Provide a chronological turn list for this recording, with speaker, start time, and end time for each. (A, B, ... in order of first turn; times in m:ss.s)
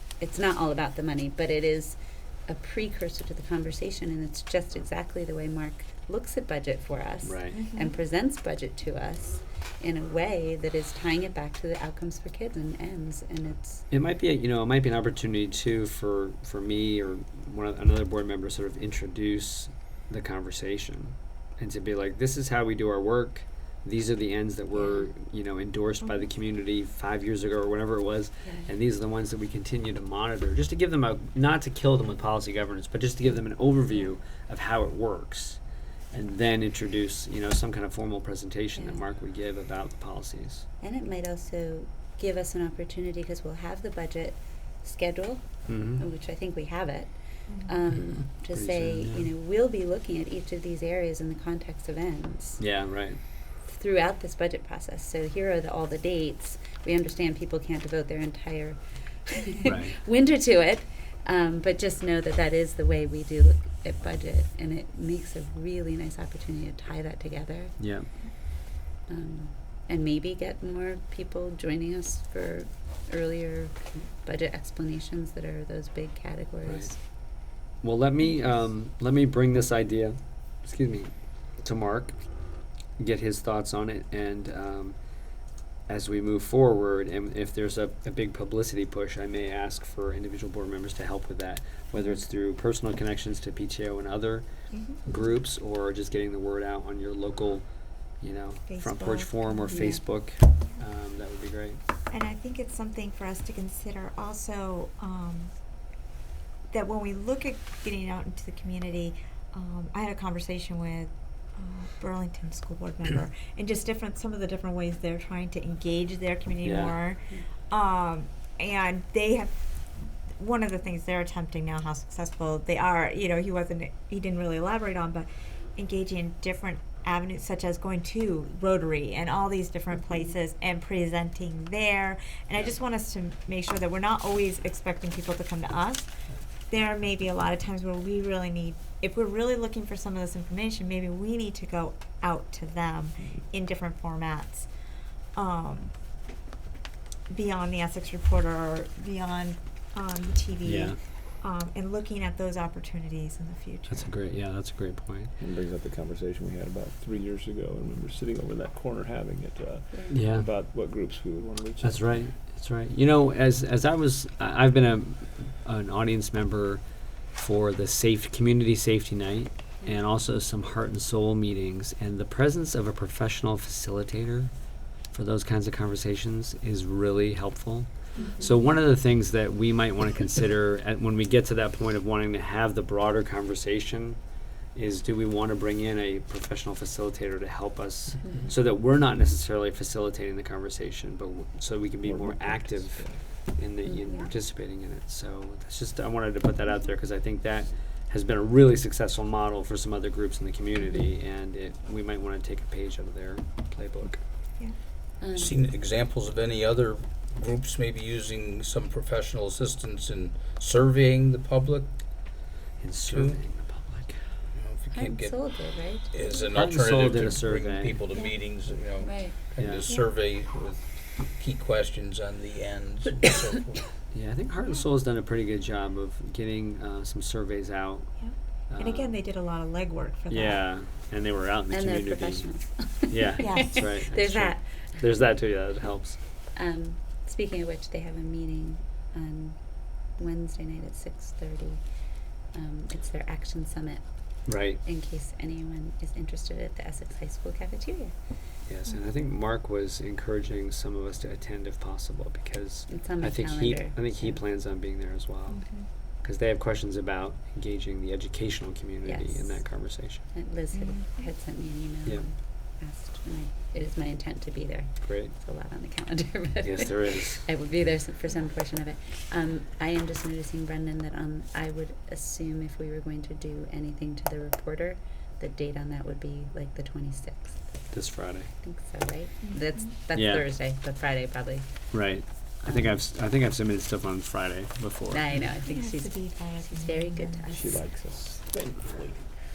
0:00.2-0:13.8 A
0:07.2-0:07.6 B
0:07.5-0:07.9 C
0:13.9-0:35.6 B
0:24.8-0:25.1 A
0:36.1-0:40.7 B
0:38.8-0:39.0 A
0:40.8-0:47.1 A
0:45.7-0:46.0 B
0:47.5-0:47.8 C
0:47.7-0:52.6 A
0:47.9-0:49.3 B
0:52.6-0:53.2 B
0:53.6-1:07.8 A
0:59.6-1:00.0 B
1:07.8-1:08.1 B
1:09.1-1:13.7 A
1:14.2-1:17.0 A
1:16.6-1:16.9 B
1:17.8-1:22.2 B
1:23.0-1:25.0 B
1:25.9-1:34.4 B
1:34.7-1:35.0 C
1:35.0-1:37.6 B
1:38.2-1:41.8 B
1:38.7-1:39.4 C
1:39.7-1:40.0 A
1:42.1-1:45.5 C
1:46.7-1:59.6 C
1:56.6-1:57.0 B
2:00.4-2:16.1 C
2:16.7-2:24.7 C
2:25.3-2:25.9 C
2:27.3-2:34.0 C
2:30.6-2:31.0 B
2:33.9-2:35.3 B
2:35.4-2:42.2 D
2:39.9-2:40.2 A
2:40.1-2:40.5 B
2:41.8-2:54.5 B
2:55.1-3:04.2 B
2:58.2-2:58.6 A
3:04.7-3:24.2 B
3:08.2-3:08.5 A
3:12.0-3:13.2 D
3:13.8-3:14.2 A
3:25.2-3:25.6 A
3:25.4-3:32.0 E
3:32.8-3:34.2 B
3:33.0-3:33.4 E
3:34.5-3:35.5 E
3:34.9-3:36.1 A
3:36.1-3:43.9 E
3:36.5-3:38.0 B
3:39.0-3:39.4 A
3:39.6-3:40.0 B
3:44.1-3:48.1 B
3:48.2-3:50.6 C
3:48.7-3:49.1 B
3:50.3-3:52.5 B
3:51.7-3:54.6 A
3:53.1-3:56.2 B
3:53.4-3:53.7 C
3:56.6-3:59.6 A
4:00.1-4:01.8 A
4:02.5-4:04.0 A
4:04.5-4:04.8 B
4:04.8-4:08.1 A
4:08.7-4:15.6 B
4:12.9-4:14.4 A
4:15.5-4:15.8 C
4:16.2-4:20.2 B
4:19.0-4:19.6 A
4:20.3-4:37.6 A
4:20.7-4:21.2 C
4:25.0-4:25.3 B
4:26.6-4:27.5 B
4:37.9-4:38.5 B
4:38.6-4:41.7 A
4:40.1-4:40.5 B
4:41.9-4:45.4 B
4:42.6-4:42.9 A
4:45.1-4:47.8 A
4:45.7-4:47.5 C
4:47.5-4:49.2 D